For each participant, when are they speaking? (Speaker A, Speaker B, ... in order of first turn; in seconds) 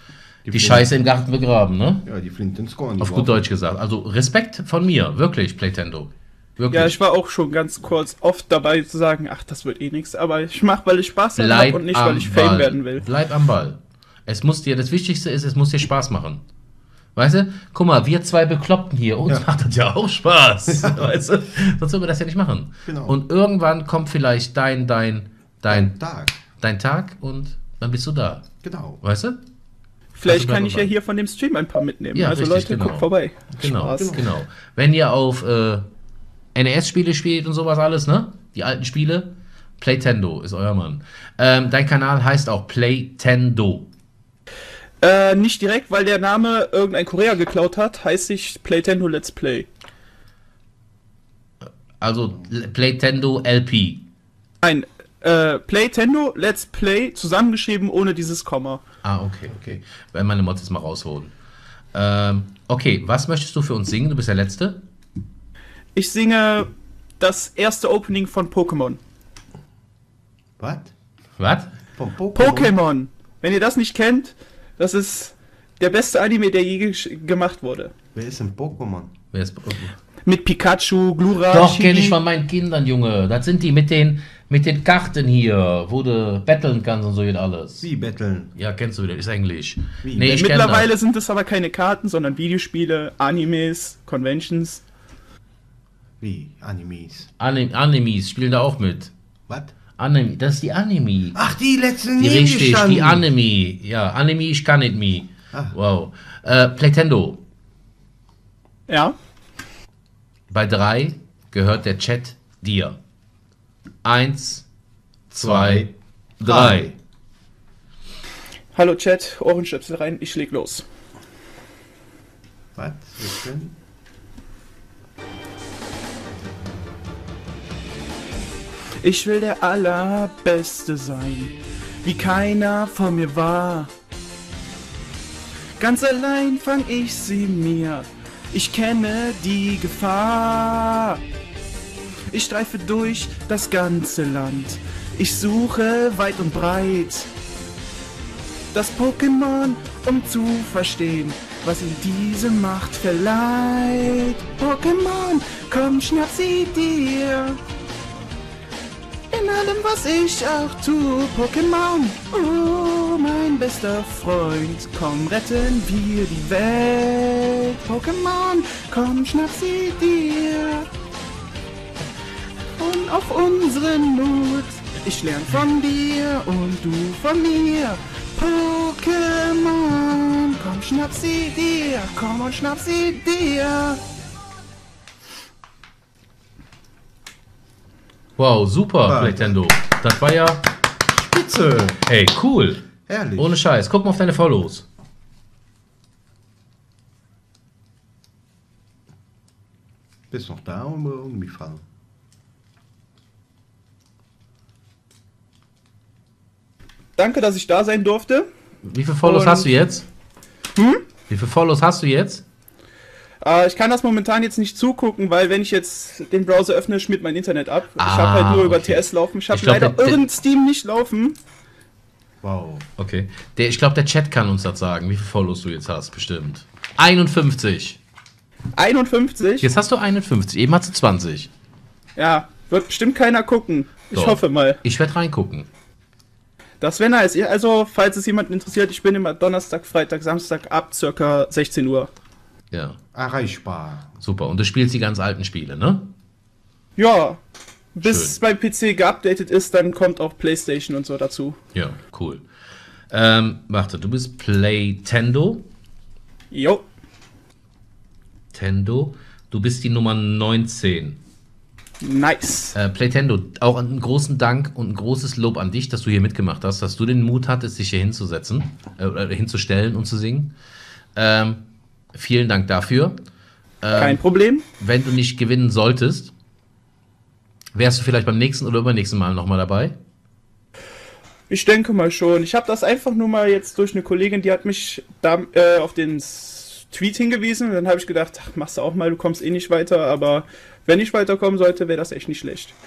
Speaker A: 0.5-1.0, 2.0-3.4, 22.9-23.2, 25.7-26.4, 28.6-29.0, 33.9-34.2, 70.6-70.9, 71.9-72.7, 78.1-79.1, 87.8-88.5, 90.0-90.4, 96.2-97.3, 99.5-99.7, 101.3-103.2, 115.4-115.9, 116.4-117.0, 122.8-123.7, 189.0-189.6, 191.1-191.9, 193.1-193.6, 200.3-201.8, 222.4-222.8, 243.1-244.1
Speaker B: 0.5-2.0, 3.0-7.0, 11.4-16.4, 17.1-25.9, 26.5-28.5, 29.0-29.4, 30.2-30.9, 32.1-35.9, 36.5-43.9, 51.6-54.0, 59.0-61.3, 61.9-64.8, 71.4-71.7, 79.3-79.9, 81.5-87.8, 88.5-90.9, 97.4-99.1, 100.0-101.4, 102.2-107.4, 110.5-113.0, 114.0-114.7, 115.3-116.9, 188.4-190.7, 191.9-194.8, 208.8-210.1, 211.3-212.4, 218.0-220.2, 223.0-228.0, 229.6-231.5, 234.1-235.7, 242.7-243.0, 244.2-246.1, 248.0-248.3, 251.7-252.4, 253.1-255.7, 258.5-261.2, 262.8-270.5, 271.1-271.6, 272.1-273.1, 273.8-274.2, 274.8-276.3, 277.8-279.9
Speaker C: 6.7-13.0, 30.1-34.2, 45.0-49.7, 54.6-58.8, 65.9-69.0, 72.3-77.9, 80.2-82.2, 90.2-94.8, 108.9-109.2, 118.7-120.8, 129.0-133.9, 135.8-141.2, 142.3-147.3, 148.7-157.6, 159.3-170.9, 172.8-184.0, 207.2-208.5, 209.2-209.7, 210.8-211.0, 213.4-221.4, 228.8-229.7, 232.2-234.8, 236.8-242.1, 247.0-247.4, 247.9-251.6, 256.5-256.8, 262.0-262.8, 273.9-274.6, 281.5-292.8